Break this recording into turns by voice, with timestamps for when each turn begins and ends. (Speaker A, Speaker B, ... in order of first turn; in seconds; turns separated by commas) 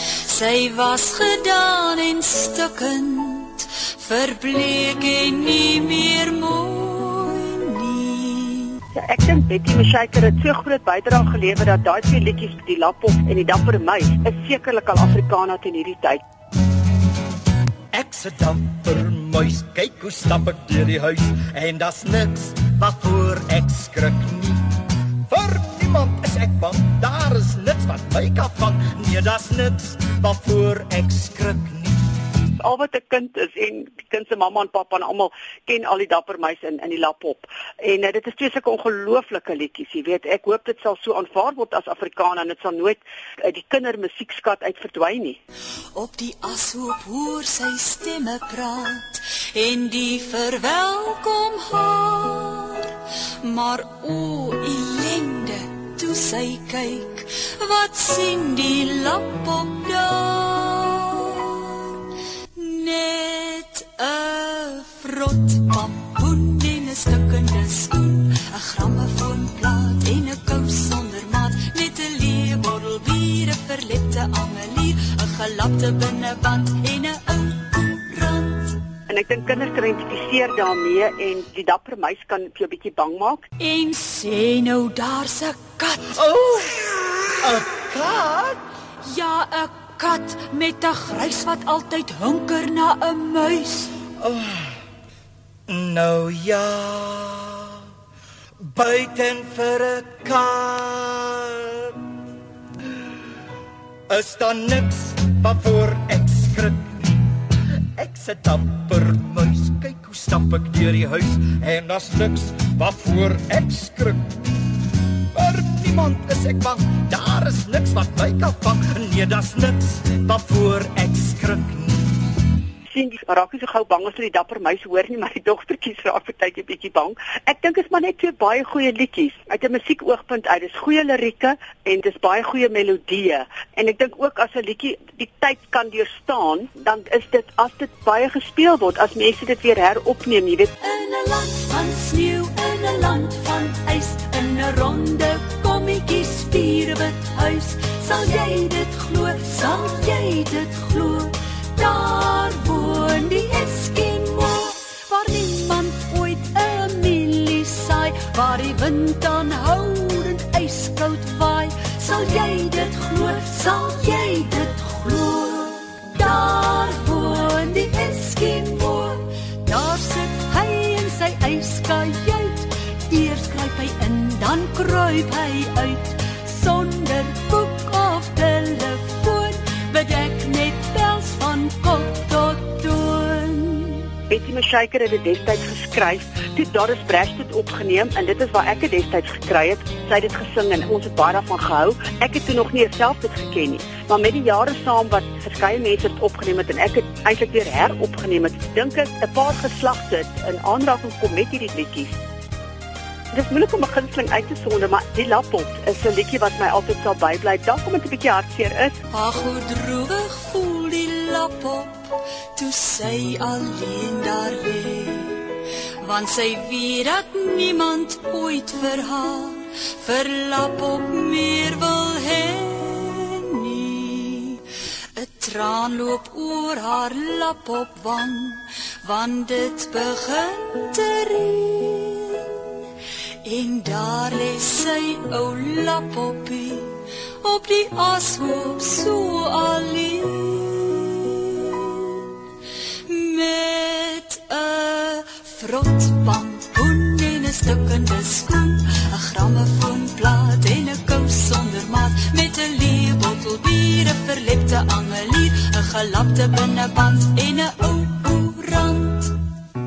Speaker A: 0.2-8.8, Speaker B: 8.9-16.2, Speaker C: 17.9-24.6, Speaker C: 25.3-32.0, Speaker B: 32.6-45.4, Speaker A: 45.9-62.0, Speaker A: 62.5-78.8, Speaker B: 79.1-83.4, Speaker A: 83.6-86.4, Speaker C: 86.2-88.6, Speaker A: 89.0-93.9, Speaker C: 94.2-94.7, Speaker C: 95.7-97.8, Speaker C: 98.7-102.0, Speaker C: 104.1-107.2, Speaker C: 108.0-114.5, Speaker C: 115.3-122.2, Speaker B: 122.9-140.7, Speaker A: 140.8-184.1, Speaker B: 184.3-202.2, Speaker B: 203.3-208.9, Speaker A: 209.1-224.6, Speaker A: 225.2-232.7, Speaker A: 233.4-242.3, Speaker A: 243.1-259.3